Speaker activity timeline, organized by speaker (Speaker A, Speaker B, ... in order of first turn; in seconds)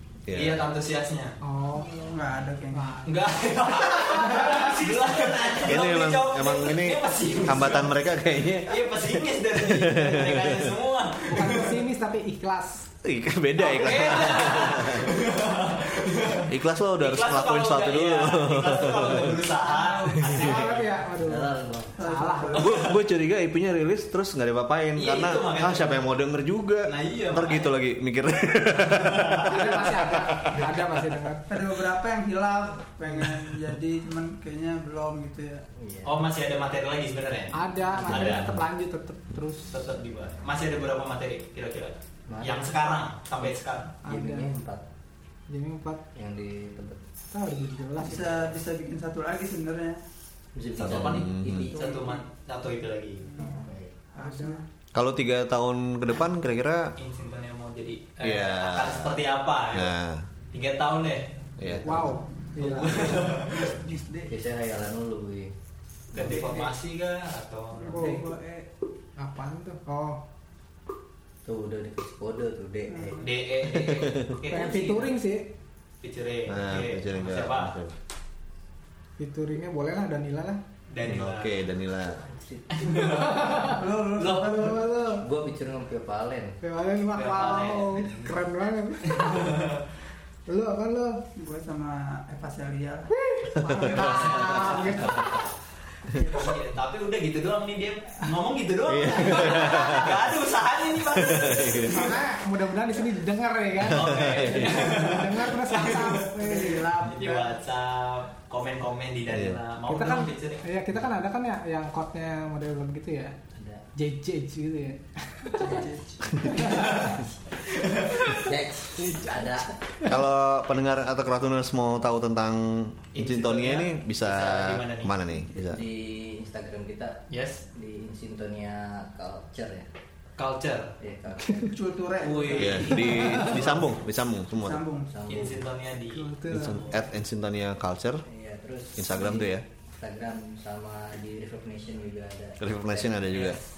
Speaker A: 0.3-0.6, 5.6-9.0, 9.5-10.7, 13.0-15.2, 16.5-19.4, 22.5-30.6, 38.1-38.6, 50.8-51.7, 54.9-56.9, 58.2-59.2, 59.7-60.2, 61.6-62.0, 73.7-74.3, 76.5-78.0, 81.0-82.2, 93.6-94.4, 98.9-100.3, 101.0-102.0, 103.8-104.8, 109.3-109.6, 120.0-125.8, 132.6-134.8, 136.5-138.2, 138.9-139.6, 142.6-143.6
Speaker B: 0.3-1.4, 3.0-8.0, 8.5-11.8, 13.6-20.9, 24.9-26.0, 26.8-27.7, 28.7-29.8, 36.0-38.5, 39.7-43.9, 50.7-53.3, 57.0-59.9, 60.5-61.3, 62.6-63.8, 66.1-68.1, 73.2-75.2, 76.0-77.8, 80.9-81.6, 82.7-84.5, 87.1-88.4, 89.0-89.8, 93.8-95.5, 96.1-102.2, 103.8-106.3, 107.1-110.6, 116.6-117.2, 117.8-118.3, 123.1-125.1, 127.3-127.6, 130.4-130.9, 132.2-133.9, 135.3-136.8, 143.3-143.6
Speaker C: 1.4-2.0, 2.7-5.1, 11.3-12.9, 20.1-22.8, 29.4-31.5, 37.5-39.8, 44.0-44.5, 45.5-46.0, 47.3-48.4, 54.2-54.5, 61.8-63.1, 67.9-68.3, 69.2-70.2, 74.5-75.5, 79.2-80.6, 82.8-85.2, 86.6-89.6, 90.5-91.2, 93.1-95.4, 101.8-106.9, 109.9-113.3, 114.0-115.8, 116.4-117.3, 119.0-120.2, 132.8-133.5, 136.1-137.0
Speaker D: 1.8-3.0, 19.7-20.3, 21.9-22.9, 31.5-35.6, 48.0-50.0, 51.7-52.2, 54.1-54.6, 63.6-64.3, 66.2-66.7, 67.8-68.7, 72.9-73.2, 83.6-84.8, 91.3-93.1, 96.1-96.5, 106.4-107.6, 115.5-116.5, 131.6-132.9, 134.5-135.1
Speaker E: 21.1-22.0, 35.8-36.2, 42.3-42.8, 44.0-44.8, 46.1-47.0, 50.5-52.0, 53.4-54.0, 61.6-62.2, 64.3-65.5, 71.4-73.2, 82.0-83.0, 85.2-86.6, 113.5-113.8, 116.5-117.2, 118.2-119.7, 125.7-127.2, 127.7-129.9, 131.0-131.7, 135.1-135.7, 138.2-143.5